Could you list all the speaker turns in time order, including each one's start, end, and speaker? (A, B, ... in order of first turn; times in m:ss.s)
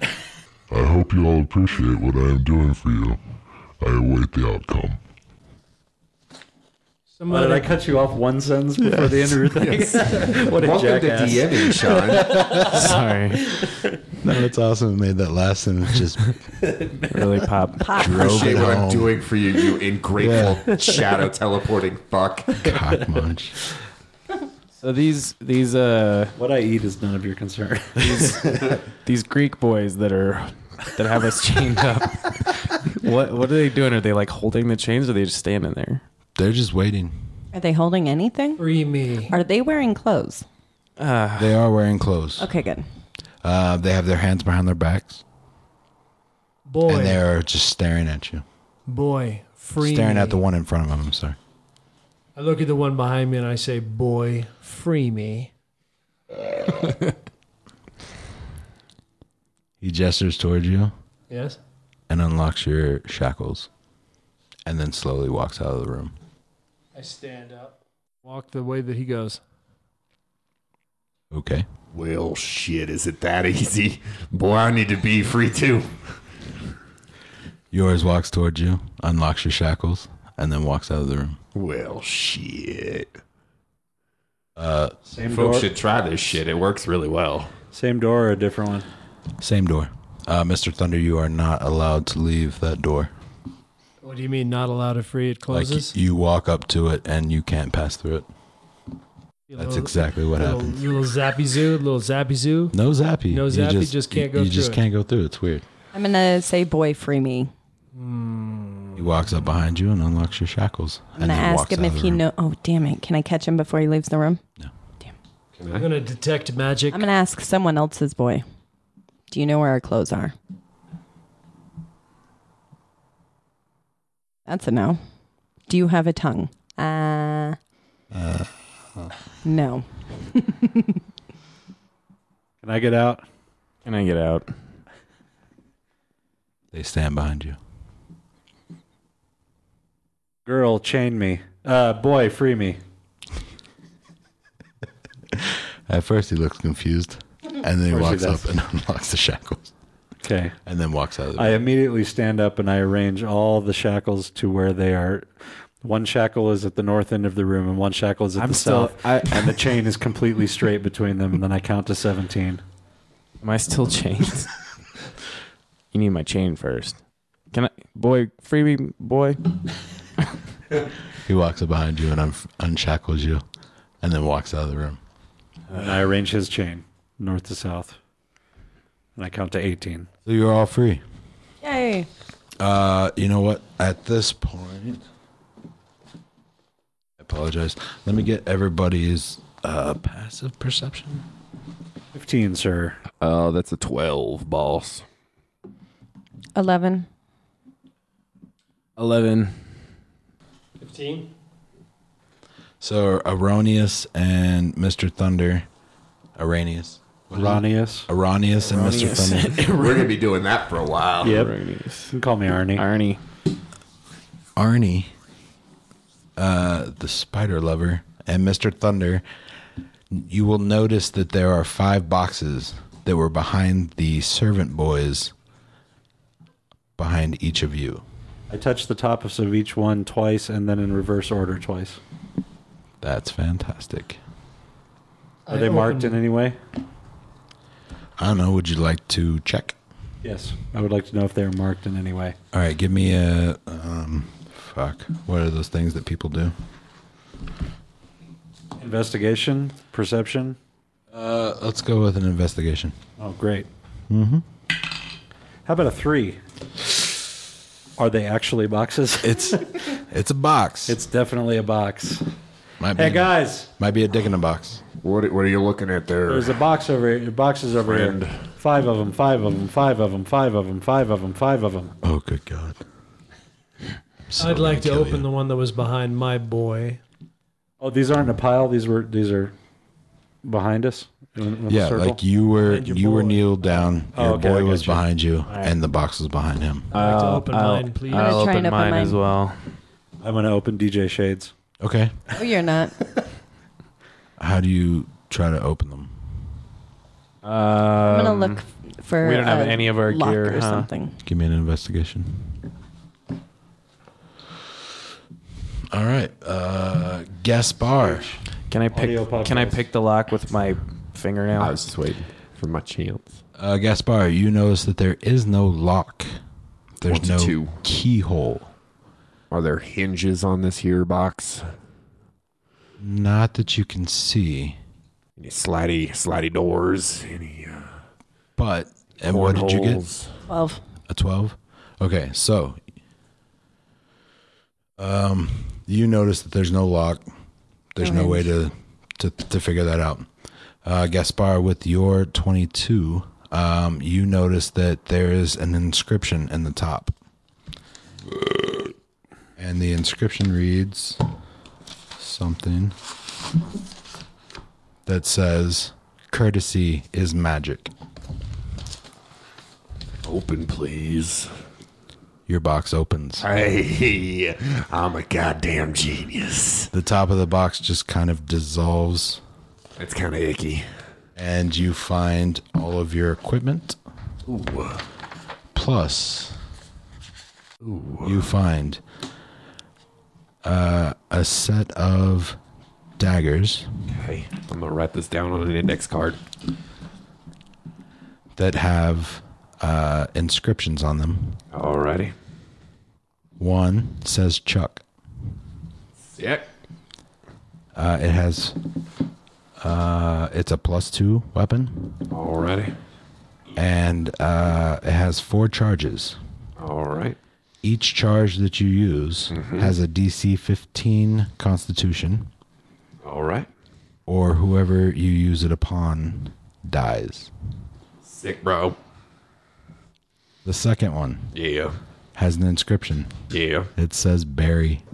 0:00.7-0:03.2 A
0:03.8-0:05.0 A
0:07.2-0:07.7 B
0:07.3-0:13.0 C
0:09.6-0:12.3 D
0:12.6-0:13.4 E
0:14.2-0:16.3 F
0:16.6-0:17.4 C
0:17.1-0:18.0 E
0:18.0-0:19.2 F
0:18.1-0:22.6 D
0:20.2-0:20.6 F
0:22.6-0:23.6 F
0:22.6-0:23.2 C
0:24.8-0:26.3 E
0:26.4-0:28.4 C
0:28.0-0:36.0 E
0:36.4-0:37.2 F
0:37.5-0:38.6 G
0:38.6-0:39.3 B
0:39.3-0:40.4 G
0:41.0-0:41.6 E
0:41.4-0:42.4 F
0:42.4-0:42.8 G
0:43.4-0:45.2 F
0:46.6-0:47.2 B
0:46.9-0:48.4 F
0:48.9-0:50.4 B
0:49.8-0:51.4 F
0:52.3-0:55.5 B
0:59.8-1:00.9 F
1:01.3-1:01.6 B
1:02.1-1:03.7 F
1:04.6-1:06.1 F
1:06.9-1:09.4 B
1:11.3-1:11.7 F
1:11.9-1:15.9 D
1:17.7-1:21.4 F
1:21.5-1:23.2 D
1:24.6-1:24.9 F
1:25.1-1:25.7 C
1:25.3-1:27.5 D
1:27.7-1:28.9 C
1:29.4-1:33.1 F
1:34.0-1:35.9 B
1:35.5-1:38.3 F
1:39.5-1:42.8 B
1:39.6-1:40.8 F
1:42.7-1:45.6 F
1:43.3-1:44.8 B
1:45.9-1:47.5 G
1:47.9-1:49.0 B
1:48.9-1:52.2 F
1:51.2-1:54.4 G
1:55.6-1:55.9 D
1:55.7-1:57.0 B
1:56.9-1:58.4 G
1:59.3-2:00.3 G
2:04.5-2:05.0 G
2:05.7-2:07.6 G
2:08.1-2:09.1 F
2:09.4-2:11.0 G
2:12.6-2:13.2 C
2:13.8-2:14.5 E
2:16.7-2:17.6 F
2:20.4-2:22.8 C
2:25.3-2:29.7 F
2:27.9-2:28.5 C
2:30.2-2:30.6 C
2:30.6-2:31.6 F
2:31.3-2:42.6 C
2:38.4-2:39.6 E
2:43.4-2:44.5 E
2:45.9-2:49.4 E
2:51.2-2:53.4 F
2:54.0-2:55.0 F
2:55.7-2:58.0 C
2:59.2-3:00.1 C
3:00.2-3:01.0 F
3:01.6-3:02.1 G
3:02.6-3:05.0 F
3:07.2-3:11.2 F
3:12.1-3:13.0 C
3:13.2-3:15.0 D
3:16.5-3:17.1 G
3:19.0-3:19.7 E
3:20.8-3:21.3 B
3:22.8-3:25.7 F
3:26.4-3:29.6 F
3:27.3-3:28.1 C
3:28.6-3:30.2 E
3:29.7-3:31.4 D
3:31.2-3:31.5 C
3:31.2-3:32.2 E
3:32.1-3:32.8 C
3:32.8-3:33.2 E
3:34.6-3:35.1 F
3:36.4-3:39.2 F
3:40.1-3:45.3 F
3:47.0-3:48.0 F
3:48.5-3:52.0 C
3:53.0-3:54.2 F
3:55.4-3:56.2 B
3:55.5-3:56.6 C
3:58.2-3:59.8 F
4:00.2-4:02.4 C
4:02.5-4:06.5 F
4:08.8-4:10.6 C
4:11.1-4:13.0 F
4:13.2-4:13.7 C
4:14.1-4:14.4 F
4:15.6-4:16.4 C
4:18.0-4:20.0 C
4:19.2-4:21.0 F
4:20.9-4:22.2 C
4:22.8-4:24.8 F
4:22.9-4:23.7 C
4:25.0-4:26.6 D
4:26.3-4:31.9 C
4:27.8-4:28.4 D
4:32.0-4:32.8 F
4:34.3-4:35.3 F
4:34.4-4:37.0 B
4:37.8-4:39.5 C
4:40.4-4:42.2 C
4:41.7-4:46.9 F
4:42.6-4:43.8 B
4:44.1-4:45.0 C
4:45.5-4:45.8 E
4:46.9-4:48.5 B
4:46.9-4:49.6 E
4:48.1-4:49.2 G
4:50.2-4:51.5 C
4:51.8-4:52.2 F
4:52.3-4:53.0 G
4:54.4-4:56.3 F
4:57.4-4:58.6 E
4:58.0-5:01.1 G
4:59.2-5:00.9 E
5:01.2-5:02.6 F
5:05.9-5:08.3 F
5:08.0-5:09.8 C
5:08.7-5:11.8 E
5:11.6-5:13.3 D
5:13.6-5:16.4 F
5:17.0-5:18.7 F
5:17.1-5:17.8 D
5:19.5-5:21.7 D
5:23.0-5:24.8 F
5:25.4-5:27.9 D
5:28.6-5:30.0 F
5:29.2-5:30.4 D
5:30.5-5:30.8 G
5:31.1-5:32.8 F
5:35.0-5:37.3 F
5:37.9-5:40.3 F
5:38.0-5:38.4 G
5:40.8-5:47.1 F
5:49.6-5:51.2 F
5:52.2-5:53.0 F
5:55.0-5:57.9 F
6:00.2-6:01.5 D
6:02.5-6:03.5 F
6:03.4-6:06.9 D
6:06.9-6:09.4 F
6:10.0-6:10.9 D
6:11.4-6:14.0 F
6:14.5-6:15.0 D
6:15.7-6:16.6 F
6:17.8-6:18.4 D
6:18.2-6:19.0 F
6:20.6-6:22.6 F
6:23.2-6:23.9 F
6:24.1-6:26.4 D
6:28.6-6:31.6 F
6:31.7-6:32.3 D
6:33.6-6:35.0 F
6:36.3-6:36.7 D
6:37.9-6:38.8 F
6:39.8-6:42.2 F
6:42.3-6:42.9 D
6:43.8-6:46.4 F
6:46.8-6:47.4 D
6:47.8-6:52.5 F
6:49.5-6:49.9 D
6:53.2-6:53.7 D
6:54.3-6:57.5 F
6:58.2-6:59.0 D
7:00.6-7:01.5 F
7:01.5-7:02.0 D
7:02.3-7:03.3 F
7:03.5-7:03.9 D
7:04.0-7:05.0 F